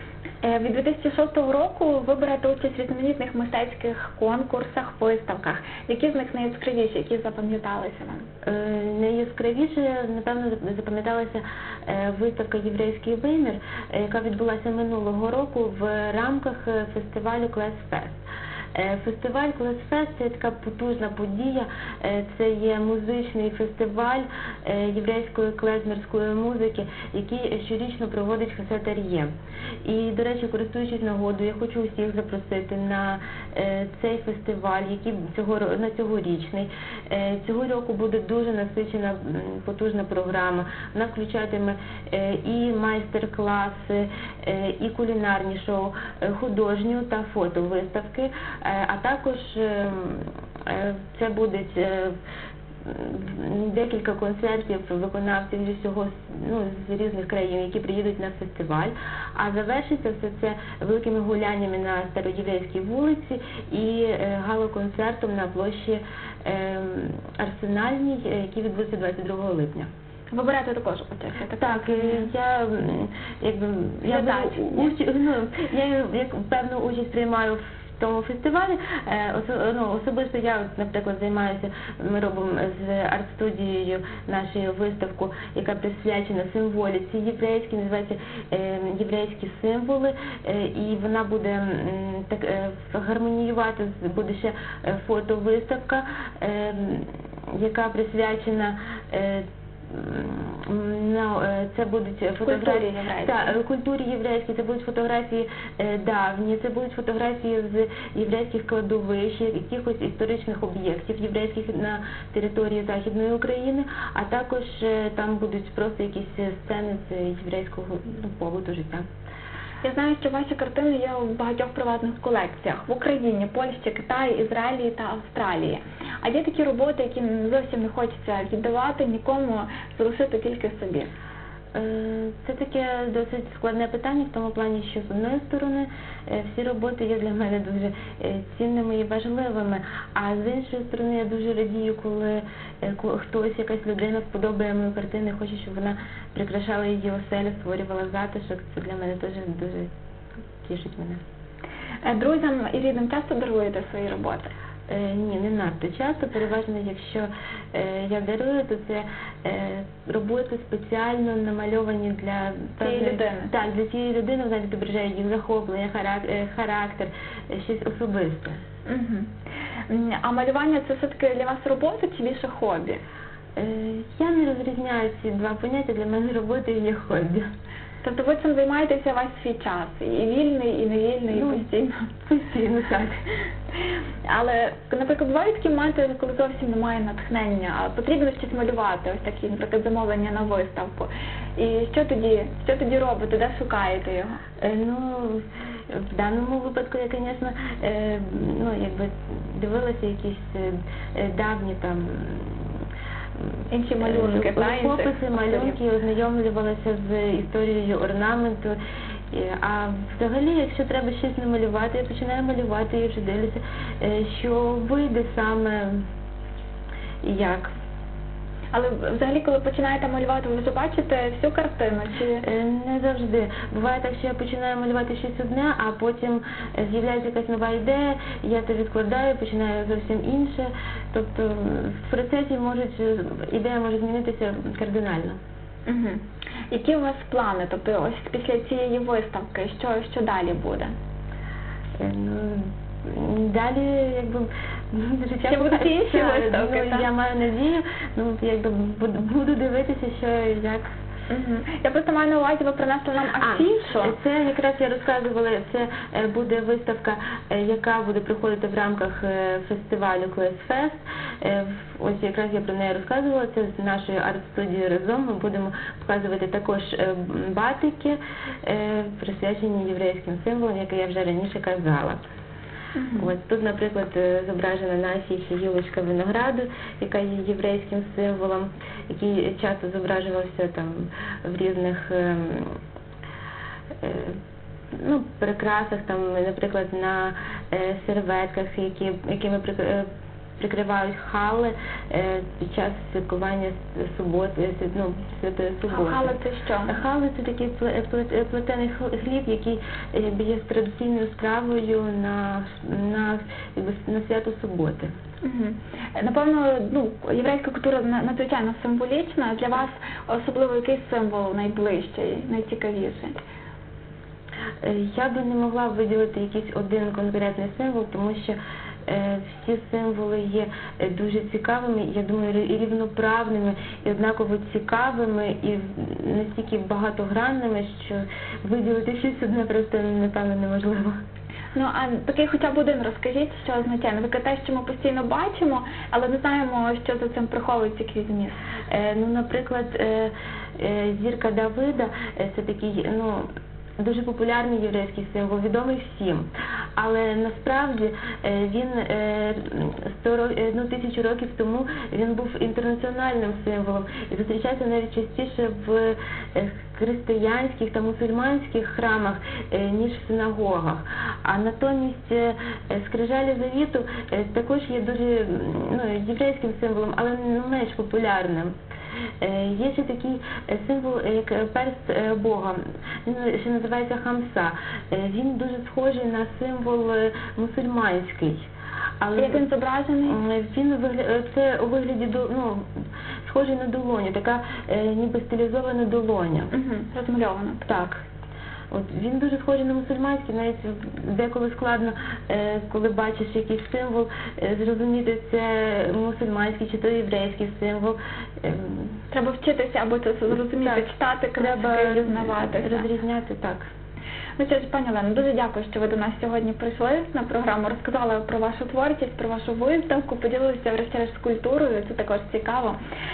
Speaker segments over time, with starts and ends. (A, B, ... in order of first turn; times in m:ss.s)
0:00.4-0:08.3 A
0:08.5-0:18.2 B
0:18.7-0:29.3 B
0:29.8-0:52.2 B
0:52.8-1:09.9 B
1:10.3-1:12.3 A
1:11.6-1:59.1 B
1:14.1-1:14.9 A
1:42.5-1:43.6 A
1:59.8-2:11.1 A
2:11.8-2:29.9 B
2:30.6-2:31.2 B
2:32.0-2:34.5 A
2:34.9-2:48.6 B
2:42.8-2:43.5 A
2:48.9-2:49.3 A
2:49.9-2:53.0 A
2:53.6-2:57.5 B
2:58.0-3:02.1 A
3:01.3-3:01.7 B
3:02.3-3:03.2 B
3:04.3-3:14.4 A
3:14.6-3:22.7 B
3:23.7-3:25.8 A
3:24.0-3:28.8 B
3:29.3-3:36.0 B
3:37.2-3:37.7 B
3:38.7-3:42.4 A
3:42.4-3:55.4 B
3:55.9-4:00.9 A
4:02.0-4:10.9 B
4:05.4-4:07.1 A
4:11.3-4:14.2 A
4:13.4-4:32.2 B
4:33.0-4:33.3 A
4:33.2-4:42.8 B
4:44.0-4:44.4 B
4:44.9-4:50.1 B
4:50.6-4:56.4 B
4:55.9-4:57.0 A
4:56.9-5:05.1 B
5:05.4-5:13.4 A
5:14.8-5:31.2 B
5:31.8-5:38.6 A
5:38.9-5:43.5 B
5:44.0-6:08.7 B
6:09.4-6:18.6 B
6:19.2-6:19.7 B
6:19.4-6:20.4 A
6:20.3-6:22.9 B
6:23.4-6:26.7 B
6:26.7-6:27.9 A
6:27.9-6:28.2 B
6:28.9-6:39.1 B
6:39.3-6:43.1 A
6:40.5-6:43.9 B
6:44.6-6:53.0 A